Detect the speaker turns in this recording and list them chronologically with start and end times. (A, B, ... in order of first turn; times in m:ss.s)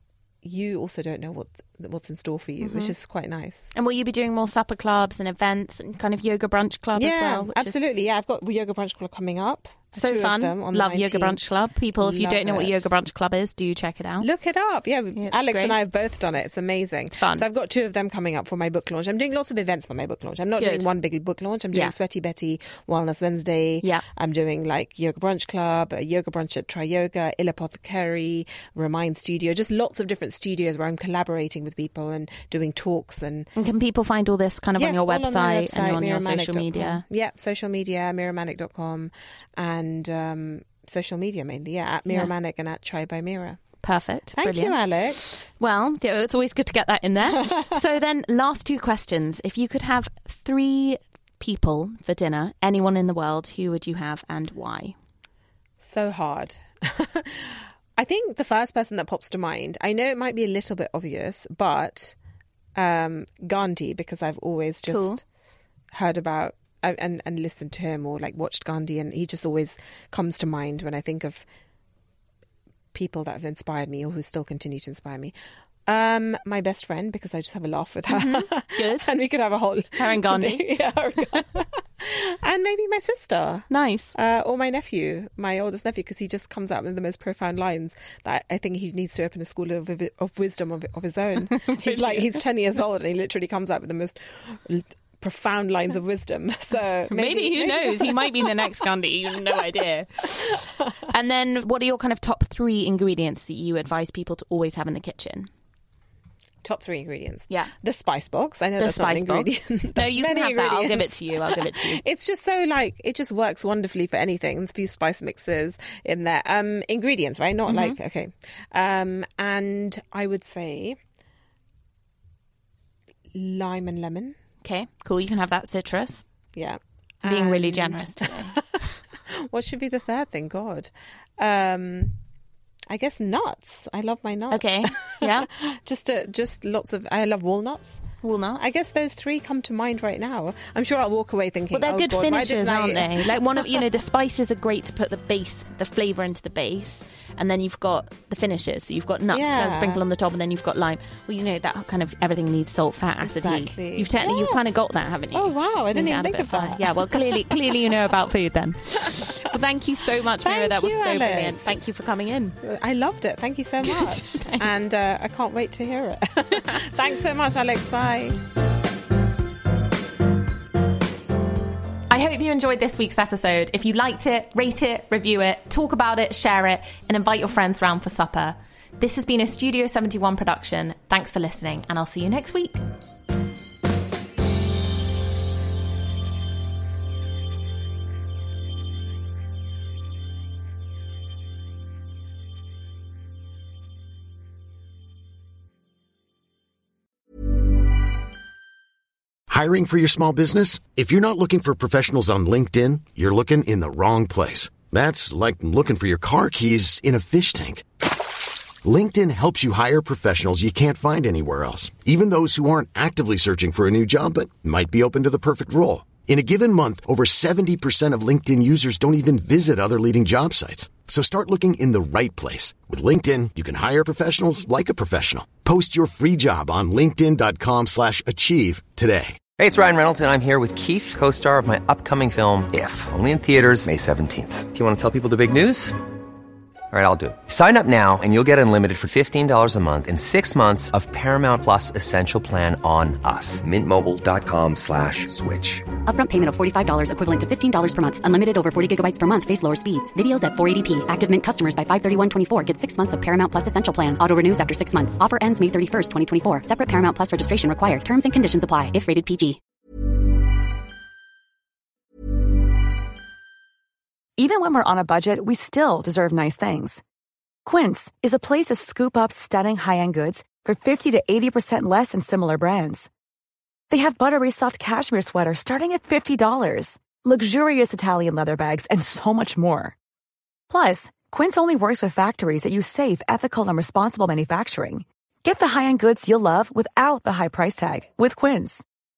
0:00.4-0:03.7 A
0:02.6-0:02.9 B
0:03.8-0:07.8 B
0:07.0-0:11.4 A
0:10.0-0:14.3 B
0:12.0-0:12.9 A
0:14.2-0:33.5 A
0:15.2-0:15.8 B
0:17.2-0:17.4 B
0:20.6-0:20.9 B
0:33.6-0:37.0 B
0:34.8-0:43.6 A
0:43.8-0:55.0 B
0:44.4-0:45.4 A
0:55.8-1:02.2 A
1:02.8-1:05.2 A
1:04.9-1:05.2 B
1:05.9-1:11.4 A
1:12.9-1:15.3 A
1:15.9-1:38.8 A
1:18.1-1:19.1 B
1:20.0-1:20.6 B
1:23.7-1:24.2 B
1:31.5-1:32.4 B
1:37.1-1:45.5 B
1:46.6-2:01.0 A
1:48.8-1:52.0 B
1:57.7-1:58.0 B
2:03.3-2:04.4 A
2:04.6-2:06.2 B
2:06.6-2:12.2 A
2:07.2-2:08.6 B
2:12.9-2:23.8 A
2:14.5-2:15.5 B
2:18.2-2:18.7 B
2:21.7-2:42.6 B
2:29.3-2:30.0 A
2:33.2-2:34.8 A
2:35.3-2:38.0 A
2:40.4-2:41.9 A
2:42.6-2:48.4 A
2:43.8-2:44.7 B
2:52.1-3:02.8 B
3:19.5-3:27.9 C
3:28.8-3:49.4 C
3:49.6-3:56.0 D
3:56.9-4:06.0 D
4:06.0-4:19.6 E
4:24.4-4:27.0 F
4:27.6-4:33.1 F
4:33.9-4:40.0 F
4:40.7-4:48.8 F